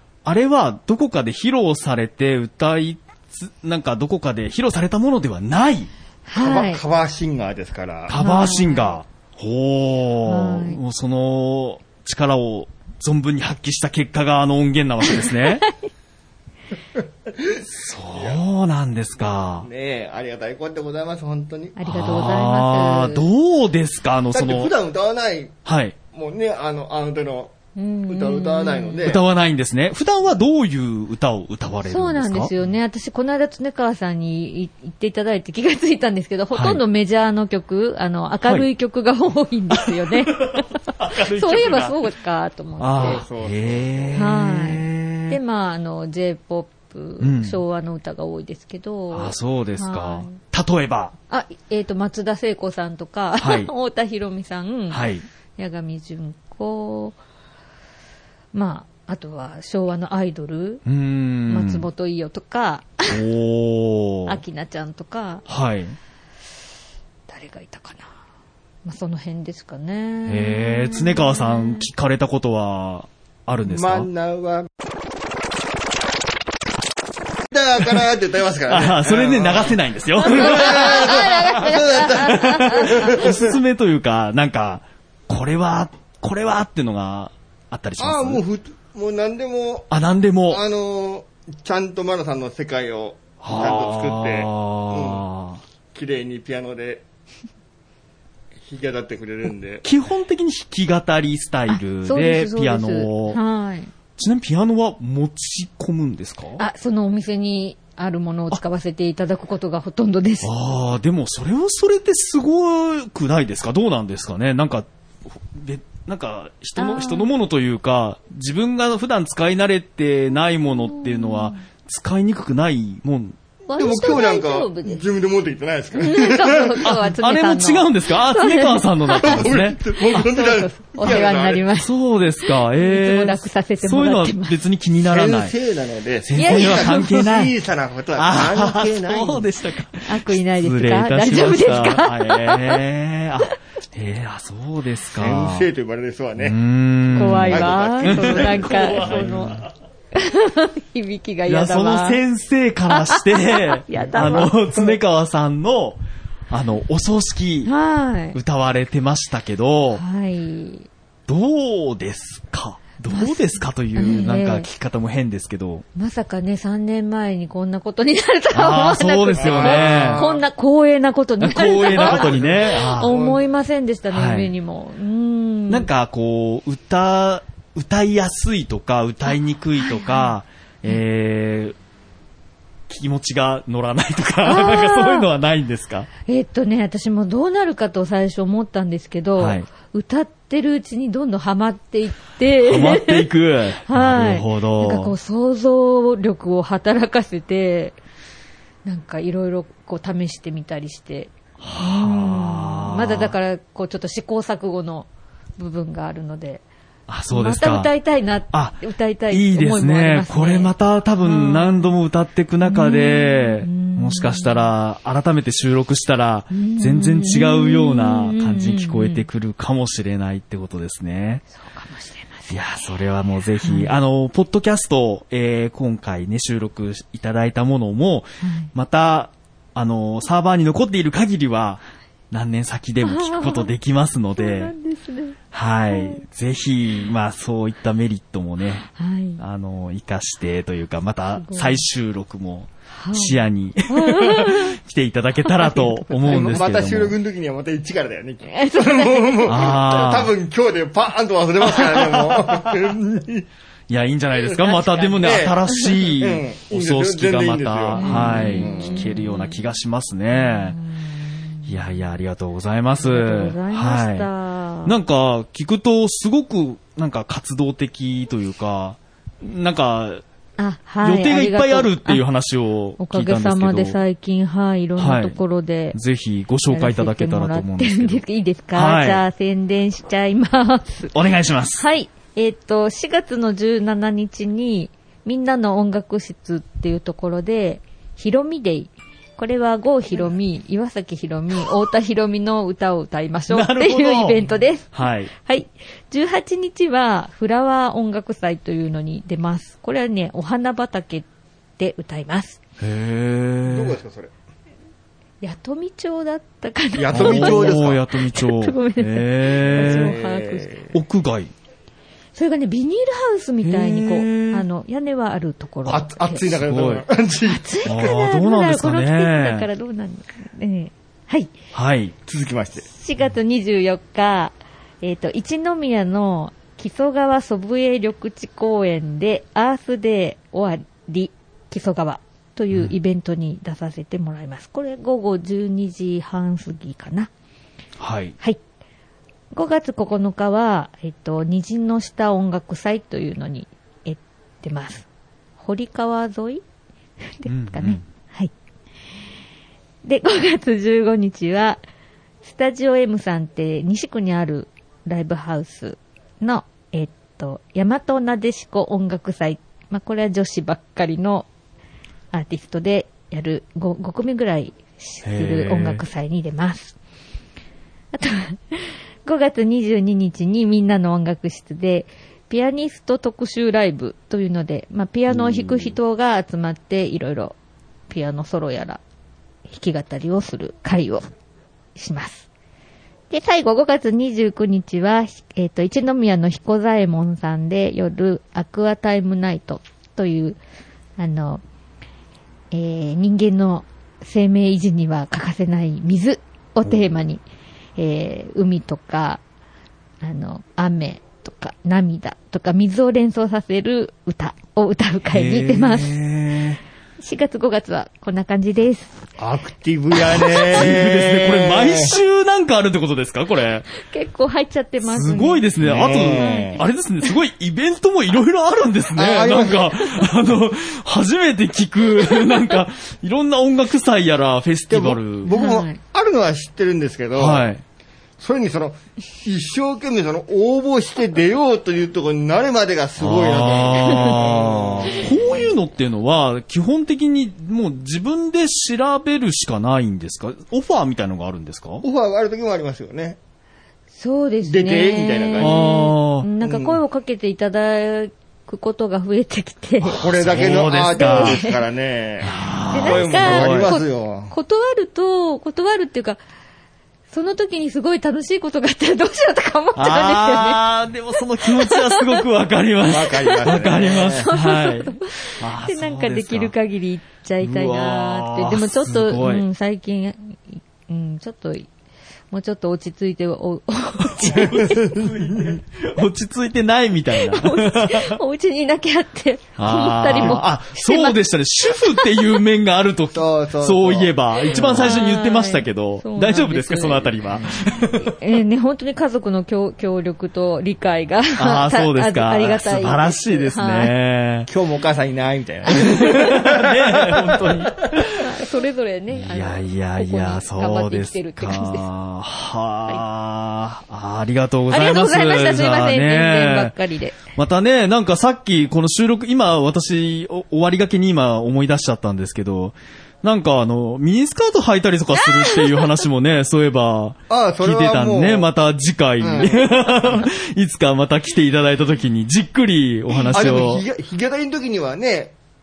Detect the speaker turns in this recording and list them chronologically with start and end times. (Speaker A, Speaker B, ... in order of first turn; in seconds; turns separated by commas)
Speaker A: 0.2-5.9, Speaker B: 6.3-6.8, Speaker C: 6.4-8.2, Speaker A: 8.1-15.6, Speaker B: 8.2-9.0, Speaker B: 10.2-10.8, Speaker C: 17.0-18.4, Speaker A: 17.6-19.7, Speaker C: 19.6-21.8, Speaker B: 21.8-23.3, Speaker A: 21.9-24.7, Speaker C: 24.3-25.6, Speaker A: 25.6-25.9, Speaker C: 26.1-27.5, Speaker B: 27.8-29.1, Speaker C: 28.1-29.2, Speaker A: 29.0-32.5, Speaker B: 31.8-43.2, Speaker A: 36.5-36.8, Speaker A: 39.7-42.0, Speaker A: 42.8-45.4, Speaker C: 43.0-44.0, Speaker B: 44.1-50.4, Speaker A: 47.2-47.6, Speaker A: 49.1-51.1, Speaker B: 51.3-57.2, Speaker A: 53.4-53.7, Speaker A: 54.9-55.2, Speaker B: 58.5-60.8, Speaker A: 60.8-61.9, Speaker B: 61.5-63.2, Speaker A: 63.1-64.4, Speaker B: 64.2-65.4, Speaker A: 65.5-66.0, Speaker B: 67.3-68.1, Speaker B: 68.8-71.8, Speaker A: 70.3-74.1, Speaker C: 73.6-74.7, Speaker C: 77.5-83.6, Speaker A: 78.7-88.4, Speaker B: 80.3-83.0, Speaker C: 88.0-89.9, Speaker A: 89.9-90.6, Speaker C: 90.5-95.2, Speaker A: 93.4-95.6, Speaker C: 95.9-97.0, Speaker C: 98.7-99.8, Speaker A: 99.8-103.4, Speaker B: 101.7-103.9, Speaker A: 104.2-106.6, Speaker B: 106.6-110.5, Speaker A: 110.4-123.4, Speaker B: 116.8-117.3, Speaker B: 120.8-121.6, Speaker B: 123.7-125.0, Speaker C: 123.8-126.9, Speaker B: 126.0-129.4, Speaker A: 126.8-129.9, Speaker C: 129.2-131.6, Speaker B: 130.1-131.9, Speaker A: 131.8-135.5, Speaker B: 132.5-134.6, Speaker C: 135.0-139.5, Speaker A: 136.2-137.5, Speaker B: 136.3-137.0, Speaker A: 138.1-145.7, Speaker B: 140.1-142.8, Speaker C: 145.2-146.6, Speaker A: 146.4-149.7, Speaker C: 147.1-149.2, Speaker B: 147.1-152.2, Speaker A: 151.5-157.7, Speaker B: 152.9-154.6, Speaker B: 157.6-158.4, Speaker A: 158.3-160.0, Speaker B: 159.9-160.9, Speaker A: 161.3-165.8, Speaker B: 163.1-164.7, Speaker B: 165.9-175.9, Speaker A: 168.5-170.2, Speaker C: 169.4-170.4, Speaker A: 171.4-173.2, Speaker C: 171.6-173.4, Speaker A: 174.1-174.5, Speaker A: 175.7-181.8, Speaker B: 179.8-180.3, Speaker A: 182.9-186.1, Speaker B: 184.4-185.3, Speaker B: 186.2-193.3, Speaker A: 189.4-189.7, Speaker A: 192.6-195.1, Speaker B: 193.8-197.9, Speaker B: 198.8-206.6, Speaker A: 201.6-203.3, Speaker A: 207.1-207.9, Speaker B: 207.3-212.0, Speaker A: 208.5-221.4, Speaker B: 212.6-214.7, Speaker B: 216.5-219.2, Speaker B: 221.5-222.8, Speaker A: 222.5-234.7, Speaker B: 223.6-223.9, Speaker B: 228.4-228.7, Speaker B: 233.0-233.7, Speaker B: 234.4-235.4, Speaker A: 235.5-247.2, Speaker B: 235.9-236.2, Speaker B: 238.9-239.4, Speaker B: 241.3-241.8, Speaker B: 242.9-244.8, Speaker B: 245.4-246.4, Speaker C: 246.2-253.4, Speaker B: 248.5-249.5, Speaker A: 249.5-250.3, Speaker A: 251.6-252.7, Speaker A: 253.9-260.8, Speaker C: 254.5-259.1, Speaker B: 257.9-259.6, Speaker B: 260.3-262.0, Speaker A: 261.6-264.3, Speaker B: 263.0-265.0, Speaker A: 264.8-270.2, Speaker B: 270.6-272.2, Speaker A: 271.0-274.0, Speaker B: 273.0-276.0, Speaker A: 275.0-275.4, Speaker A: 275.9-279.2, Speaker B: 276.7-281.1, Speaker A: 281.1-281.8, Speaker B: 281.8-301.2, Speaker A: 293.5-294.4, Speaker A: 294.9-295.3, Speaker B: 301.8-302.6, Speaker A: 302.8-304.0, Speaker C: 303.6-304.3, Speaker B: 305.4-310.7, Speaker C: 306.9-308.0, Speaker A: 307.1-310.1, Speaker C: 309.6-310.9, Speaker A: 310.9-311.5, Speaker B: 312.3-316.4, Speaker A: 313.6-314.6, Speaker C: 315.9-318.0, Speaker A: 316.6-317.0, Speaker B: 317.4-321.5, Speaker A: 317.9-319.7, Speaker A: 321.7-322.1, Speaker C: 322.2-322.9, Speaker B: 322.9-337.3, Speaker A: 338.0-338.4, Speaker B: 339.5-345.1, Speaker B: 345.6-346.6, Speaker B: 347.4-348.5, Speaker A: 347.4-348.0, Speaker B: 350.0-351.8, Speaker B: 352.4-361.5, Speaker B: 362.3-367.0, Speaker A: 365.2-366.0, Speaker B: 368.1-377.5, Speaker A: 375.3-375.9, Speaker B: 378.1-379.0, Speaker B: 379.7-381.2, Speaker B: 381.9-382.5, Speaker B: 383.3-390.6, Speaker B: 391.2-391.6, Speaker B: 392.7-397.4, Speaker B: 398.0-399.4, Speaker B: 400.2-406.2, Speaker A: 405.3-406.8, Speaker B: 407.2-409.2, Speaker C: 409.4-412.2, Speaker A: 410.1-413.9, Speaker B: 413.9-416.8, Speaker A: 415.0-425.5, Speaker C: 415.8-416.8, Speaker C: 419.1-419.9, Speaker C: 424.9-427.7, Speaker B: 425.4-426.0, Speaker A: 427.4-427.8, Speaker C: 428.4-435.6, Speaker A: 433.2-442.0, Speaker C: 442.0-443.4, Speaker B: 444.1-450.2, Speaker C: 444.6-445.9, Speaker A: 445.6-446.5, Speaker C: 446.6-447.0, Speaker A: 450.0-451.6, Speaker C: 450.1-454.5, Speaker B: 450.9-451.7, Speaker A: 452.4-453.9, Speaker B: 452.9-456.4, Speaker B: 457.3-460.8, Speaker A: 459.9-466.7, Speaker B: 461.6-462.4, Speaker C: 463.1-464.5, Speaker B: 463.8-471.9, Speaker A: 467.6-469.6, Speaker B: 472.5-475.0, Speaker A: 474.3-478.4, Speaker C: 474.6-475.8, Speaker B: 477.4-481.4, Speaker A: 479.8-488.4, Speaker C: 483.3-485.1, Speaker B: 484.7-487.4, Speaker B: 488.2-494.1, Speaker A: 491.6-494.7, Speaker C: 494.7-497.8, Speaker A: 495.9-498.2, Speaker B: 498.2-502.1, Speaker A: 499.3-506.9, Speaker B: 504.9-507.4, Speaker A: 507.5-524.0, Speaker B: 515.4-516.2, Speaker C: 517.5-518.7, Speaker C: 519.4-520.5, Speaker C: 523.3-525.5